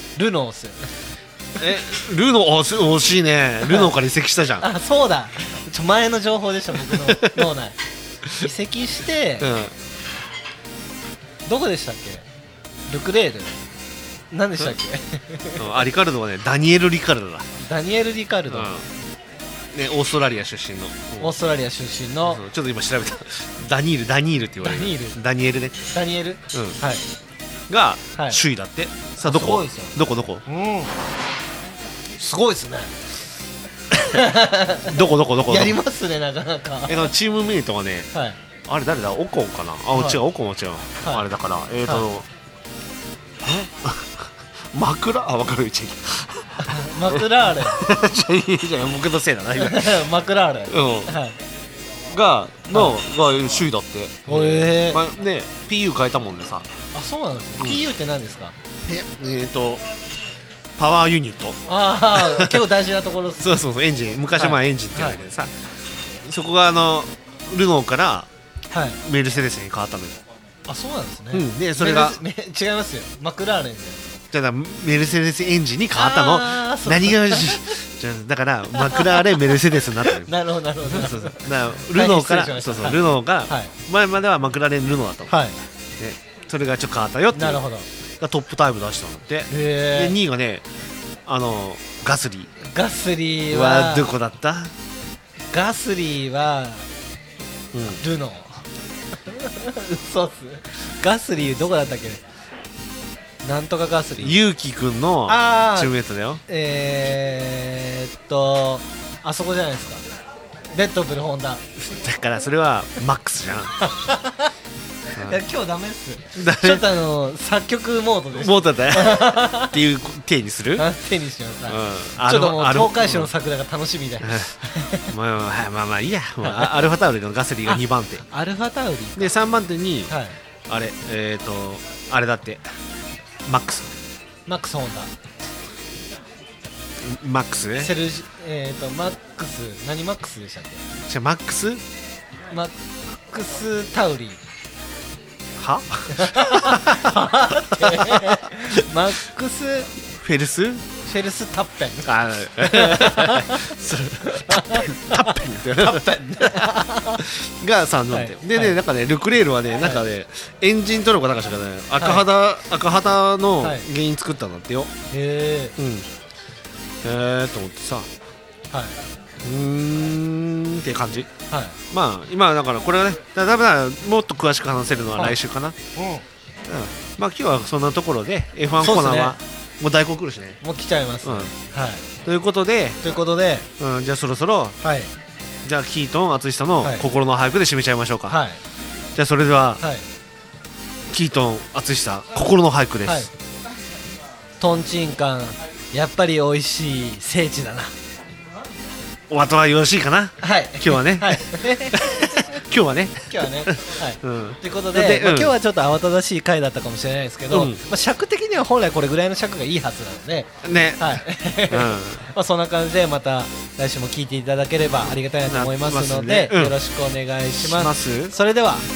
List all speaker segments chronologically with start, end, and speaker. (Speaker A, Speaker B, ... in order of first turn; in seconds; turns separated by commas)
Speaker A: 0.2-0.9, Speaker B: 1.6-4.7, Speaker A: 3.6-3.9, Speaker A: 4.6-7.8, Speaker B: 6.9-7.5, Speaker A: 8.3-9.5, Speaker B: 9.4-9.7, Speaker A: 11.4-12.2, Speaker A: 12.9-13.6, Speaker A: 14.3-15.7, Speaker B: 15.6-17.5, Speaker A: 17.6-18.7, Speaker B: 18.5-18.8, Speaker B: 19.7-21.3, Speaker A: 21.2-22.4, Speaker B: 22.3-25.8, Speaker A: 24.6-25.2, Speaker A: 25.9-27.1, Speaker B: 26.5-26.8, Speaker B: 27.7-30.4, Speaker A: 28.1-28.4, Speaker A: 29.2-29.9, Speaker A: 30.5-30.9, Speaker A: 32.2-33.0, Speaker A: 34.0-37.1, Speaker B: 34.8-35.8, Speaker B: 36.9-38.1, Speaker A: 38.1-38.4, Speaker B: 38.7-42.3, Speaker A: 39.9-40.2, Speaker A: 41.0-41.3, Speaker B: 43.4-50.1, Speaker A: 46.6-47.8, Speaker A: 49.6-51.4, Speaker B: 50.7-51.2, Speaker B: 52.1-56.7, Speaker A: 54.3-55.0, Speaker A: 56.9-58.5, Speaker B: 58.8-59.8, Speaker B: 60.8-62.6, Speaker A: 61.7-63.5, Speaker B: 63.4-65.5, Speaker A: 64.4-65.2, Speaker B: 66.2-68.3, Speaker A: 68.7-69.0, Speaker B: 69.0-70.2, Speaker A: 70.7-74.2, Speaker B: 71.3-72.2, Speaker B: 74.3-85.3, Speaker A: 75.9-77.8, Speaker A: 78.7-83.7, Speaker A: 85.3-85.5, Speaker B: 86.0-87.6, Speaker A: 87.3-87.9, Speaker B: 88.2-90.7, Speaker A: 89.5-90.2, Speaker B: 91.2-92.5, Speaker A: 92.6-94.1, Speaker B: 93.5-94.7, Speaker A: 95.5-96.9, Speaker B: 97.7-98.0, Speaker A: 97.9-98.6, Speaker A: 99.2-102.2, Speaker A: 103.4-104.3, Speaker B: 104.2-106.4, Speaker A: 105.3-105.9, Speaker A: 106.5-110.0, Speaker A: 110.7-111.6, Speaker B: 111.8-113.8, Speaker A: 113.8-114.5, Speaker A: 115.1-119.7, Speaker B: 116.3-117.0, Speaker B: 118.3-120.8, Speaker A: 120.8-125.1, Speaker B: 121.7-123.3, Speaker B: 124.2-124.5, Speaker B: 125.1-128.3, Speaker A: 126.4-126.8, Speaker A: 127.7-129.3, Speaker B: 129.2-130.1, Speaker A: 130.1-130.3, Speaker B: 130.7-132.6, Speaker B: 133.4-133.9, Speaker A: 134.5-135.1, Speaker B: 137.0-137.9, Speaker A: 137.8-140.8, Speaker B: 141.1-141.8, Speaker A: 143.3-144.4, Speaker B: 145.6-148.8, Speaker A: 146.1-149.9, Speaker B: 150.2-150.8, Speaker A: 151.0-157.3, Speaker B: 152.0-164.9, Speaker A: 158.1-158.8, Speaker A: 162.0-162.2, Speaker A: 163.6-163.9, Speaker A: 165.1-165.7, Speaker B: 165.8-166.1, Speaker B: 167.0-168.1, Speaker A: 168.7-169.0, Speaker B: 169.4-171.3, Speaker A: 171.5-171.8, Speaker B: 171.9-175.8, Speaker A: 175.9-176.2, Speaker B: 176.7-180.6, Speaker A: 178.8-179.4, Speaker A: 180.6-182.1, Speaker B: 181.2-181.5, Speaker B: 182.2-183.0, Speaker A: 183.0-183.7, Speaker B: 183.8-184.8, Speaker A: 184.8-185.1, Speaker B: 185.6-188.4, Speaker A: 188.3-188.6, Speaker B: 189.1-189.8, Speaker A: 189.8-190.0, Speaker B: 191.1-193.3, Speaker A: 193.0-193.3, Speaker A: 194.6-197.9, Speaker B: 199.3-205.6, Speaker A: 200.4-202.6, Speaker A: 203.3-218.8, Speaker B: 207.5-207.8, Speaker B: 210.6-212.3, Speaker B: 215.5-216.8, Speaker B: 217.5-218.3